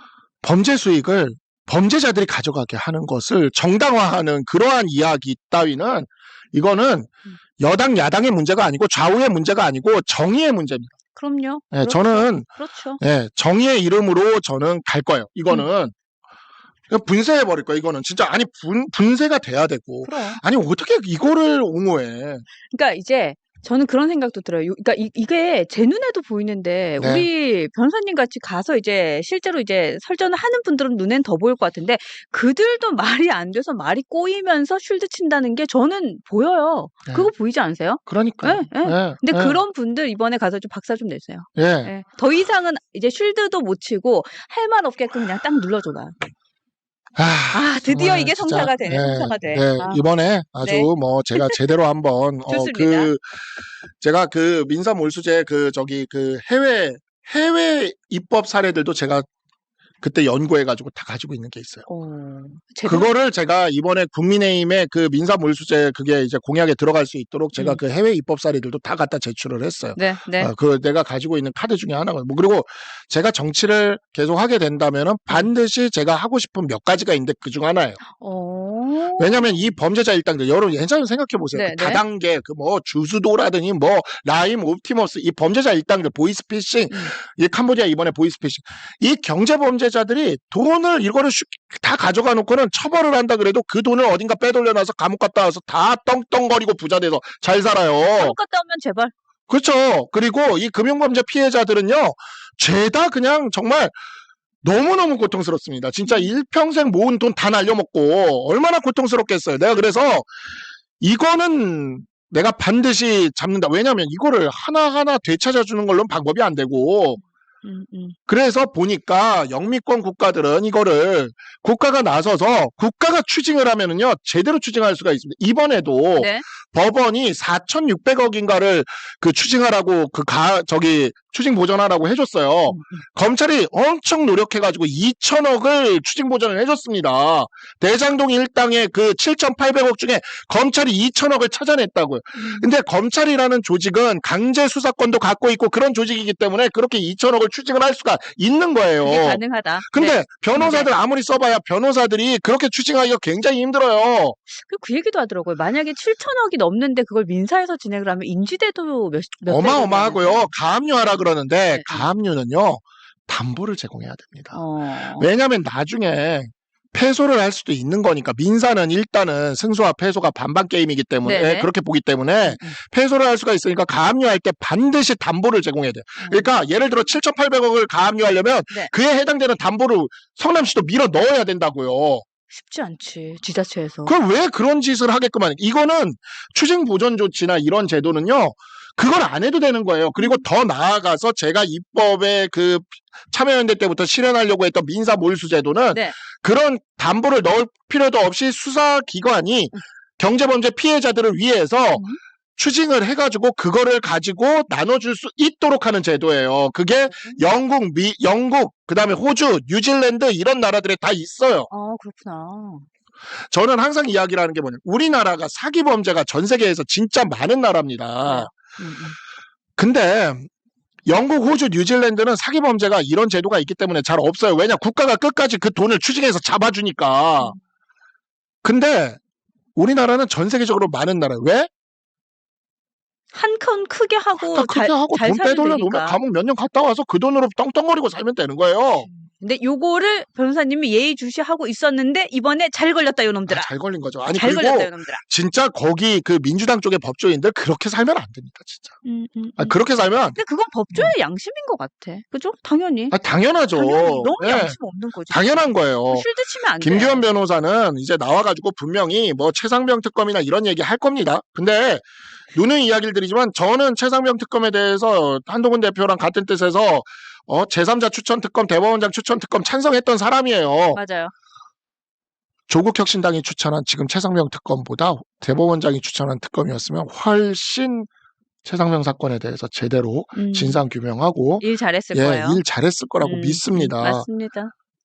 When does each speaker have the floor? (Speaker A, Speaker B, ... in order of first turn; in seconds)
Speaker A: 0.4-10.9, 11.7-12.5, 13.0-15.9, 16.9-22.5, 27.0-27.3, 38.1-39.6, 41.6-41.9, 47.2-53.4, 54.0-59.3, 60.0-61.9, 62.9-78.0, 79.2-98.4, 99.5-104.0, 104.6-110.3, 111.0-117.2, 118.3-154.4, 159.5-164.6, 165.1-182.2, 184.1-202.1, 202.6-211.7, 213.5-218.5, 219.8-220.5, 221.1-227.5, 228.6-229.2, 229.8-231.7, 234.4-239.1, 243.5-248.9, 249.6-250.4, 253.1-254.8, 255.3-256.3, 256.8-271.0, 272.7-278.1, 278.6-284.3
Speaker B: 11.2-13.0, 20.0-20.4, 22.7-46.2, 47.5-50.0, 50.6-51.6, 52.5-53.1, 61.9-63.1, 70.0-70.5, 78.1-79.5, 81.5-82.0, 98.1-99.1, 117.6-118.2, 126.2-126.4, 132.7-133.0, 142.4-142.7, 149.0-150.9, 154.6-160.5, 161.7-162.1, 164.5-165.3, 171.2-171.7, 172.5-172.8, 176.2-176.5, 182.5-184.2, 190.2-190.4, 195.9-196.2, 201.9-202.2, 207.1-207.4, 211.7-212.9, 218.2-219.2, 233.3-236.2, 239.1-243.7, 244.3-245.2, 249.0-249.8, 250.3-253.2, 253.7-257.3, 270.9-271.3, 280.4-280.8, 281.6-282.6, 283.2-284.7